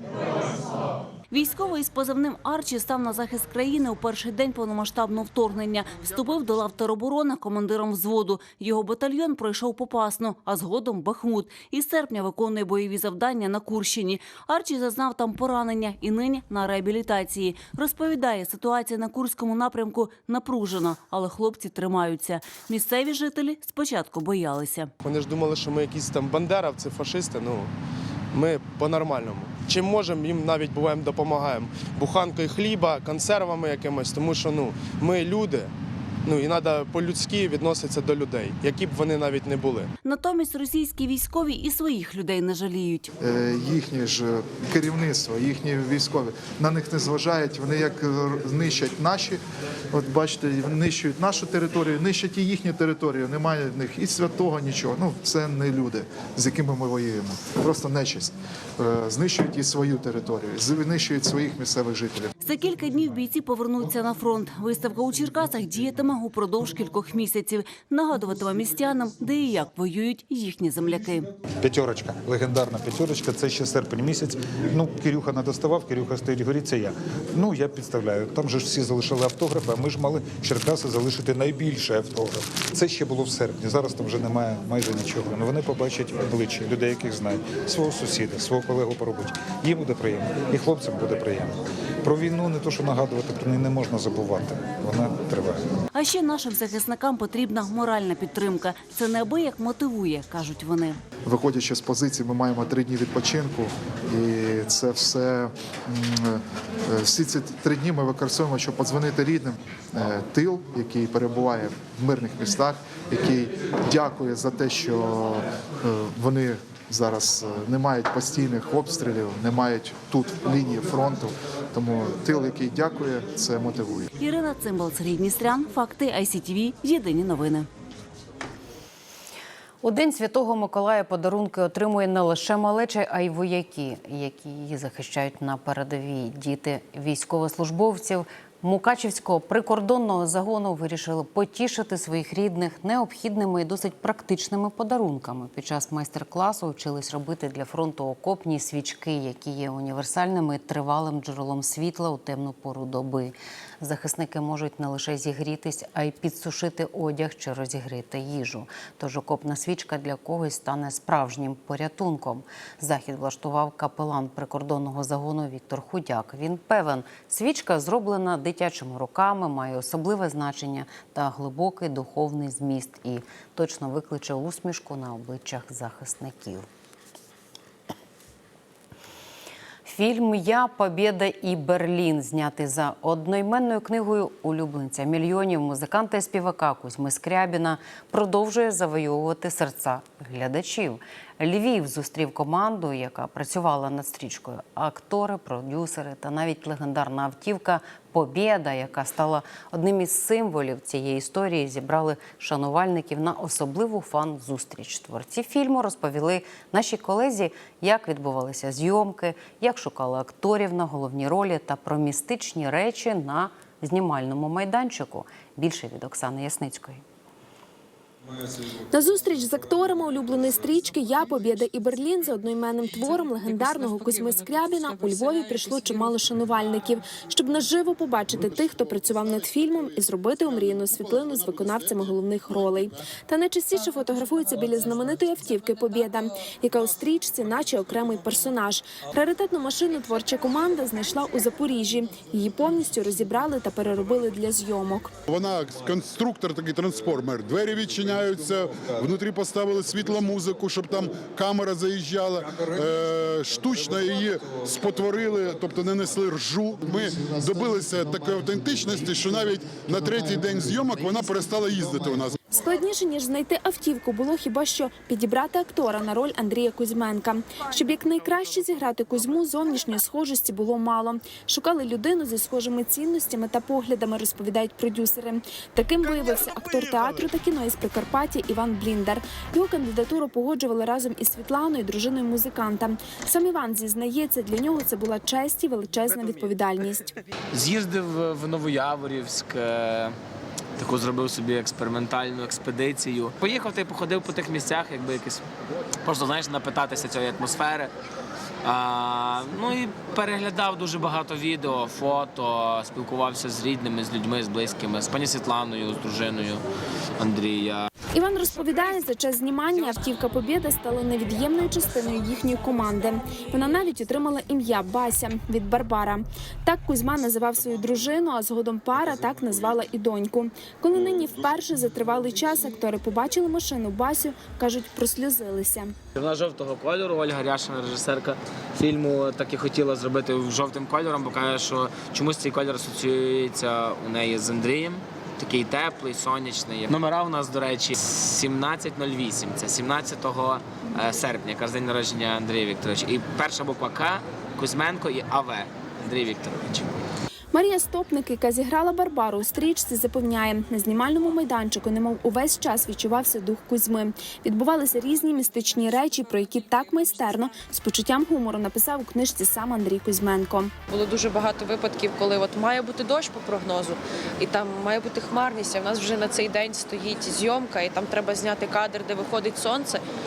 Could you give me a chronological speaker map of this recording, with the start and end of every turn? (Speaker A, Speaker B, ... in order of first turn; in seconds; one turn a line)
Speaker A: 1.3-24.9
Speaker B: 25.0-27.7
Speaker B: 28.3-35.7
Speaker B: 36.2-39.9
Speaker A: 40.0-43.1
Speaker C: 43.2-49.4
Speaker C: 49.9-62.3
Speaker A: 62.4-71.3
Speaker D: 71.6-95.6
Speaker A: 95.9-101.0
Speaker C: 101.3-124.1
Speaker A: 124.2-127.7
Speaker E: 129.8-176.7
Speaker E: 179.9-217.0
Speaker F: 218.9-245.1
Speaker G: 223.0-226.2
Speaker H: 245.3-262.4
Speaker F: 262.5-287.1
Speaker I: 287.5-290.2
Speaker I: 290.8-295.4
Speaker I: 296.1-297.9
Speaker I: 298.6-306.6
Speaker I: 307.2-307.9
Speaker F: 308.1-325.9
Speaker I: 326.2-346.9
Speaker F: 347.5-360.7
Speaker G: 360.9-370.0